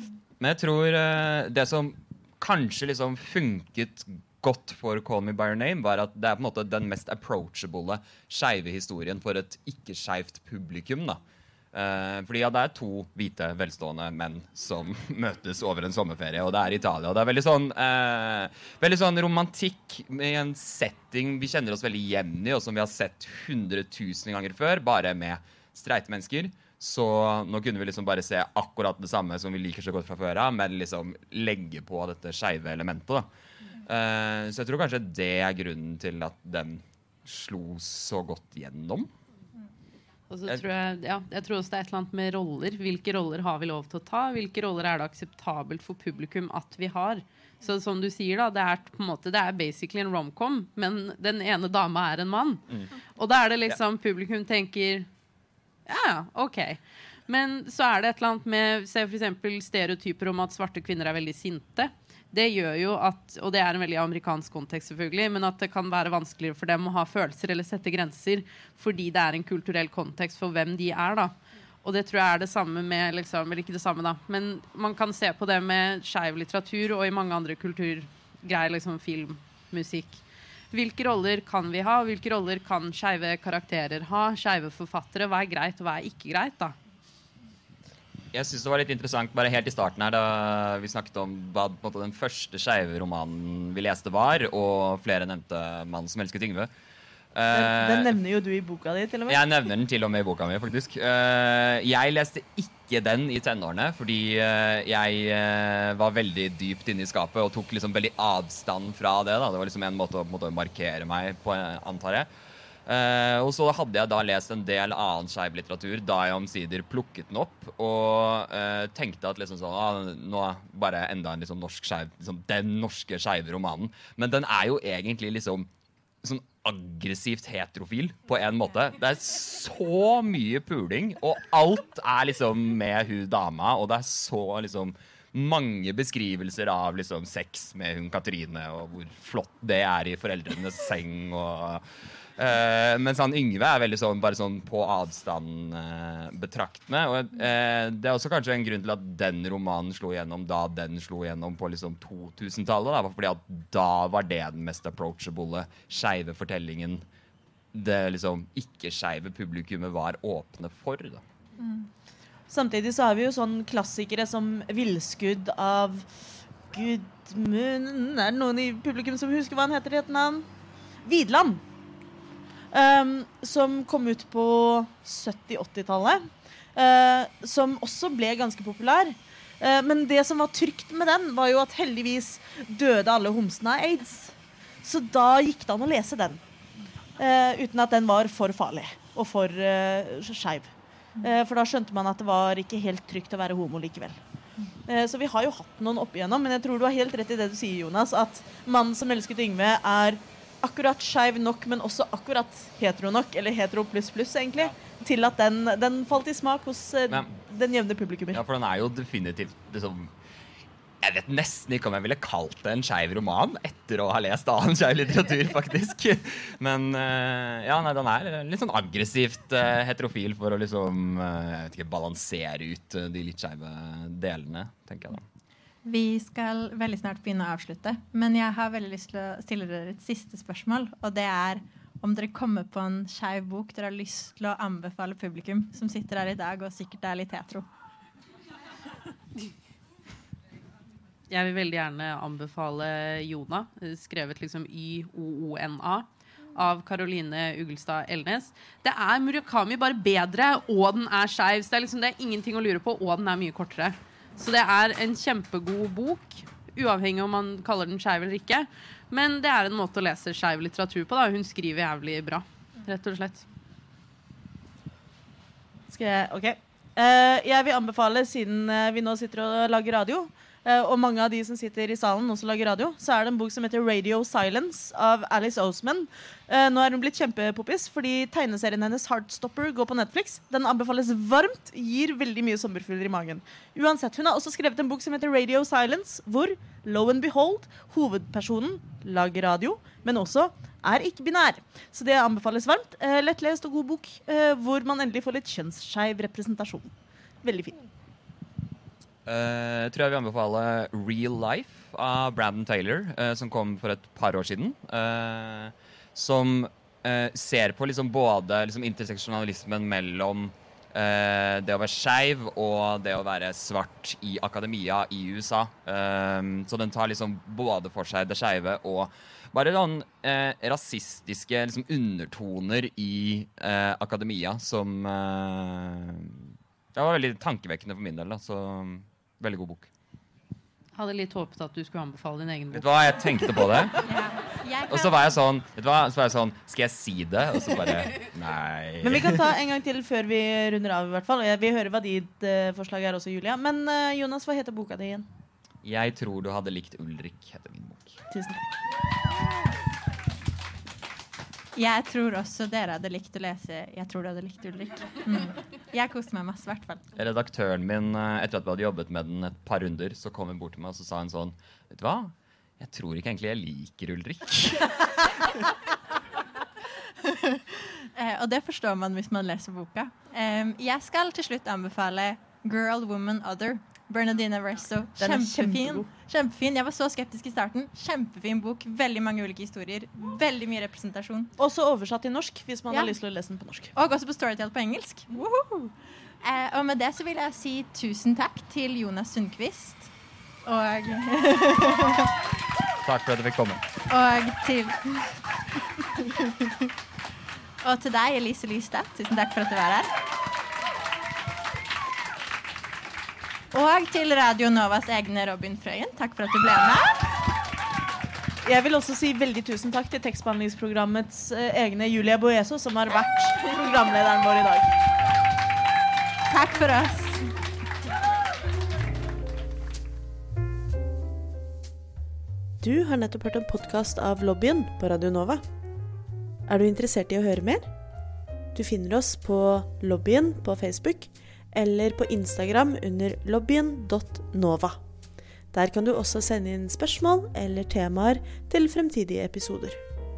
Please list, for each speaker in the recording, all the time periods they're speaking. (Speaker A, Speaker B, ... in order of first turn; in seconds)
Speaker A: 0.4-11.2, 11.7-33.3, 33.8-39.1, 88.3-96.7, 97.3-98.1, 99.3-112.3, 112.8-125.7, 126.2-141.8, 142.4-157.0, 157.7-161.2, 207.1-207.3, 208.3-210.1, 211.0-225.2, 299.2-329.9, 332.7-334.0, 334.9-339.5, 345.8-348.2, 357.1-365.6, 393.0-393.8
Speaker B: 40.3-52.6, 53.2-55.1, 55.9-86.8, 241.3-263.4, 330.9-333.6
Speaker C: 97.5-99.4, 162.5-166.1, 166.7-170.4, 171.0-171.6, 172.7-186.4, 187.2-194.2, 194.8-208.4, 265.9-297.9, 339.0-345.3, 348.3-348.6, 375.2-376.1, 381.6-383.9, 408.6-414.9
Speaker D: 161.6-161.9, 225.8-237.7, 334.1-335.3, 351.8-357.1, 367.2-381.5, 383.9-390.1, 390.6-392.3, 394.1-396.9, 397.8-400.1, 403.7-407.2, 416.5-417.5
Speaker E: 422.8-425.6, 426.7-427.9, 428.7-435.0, 435.7-440.0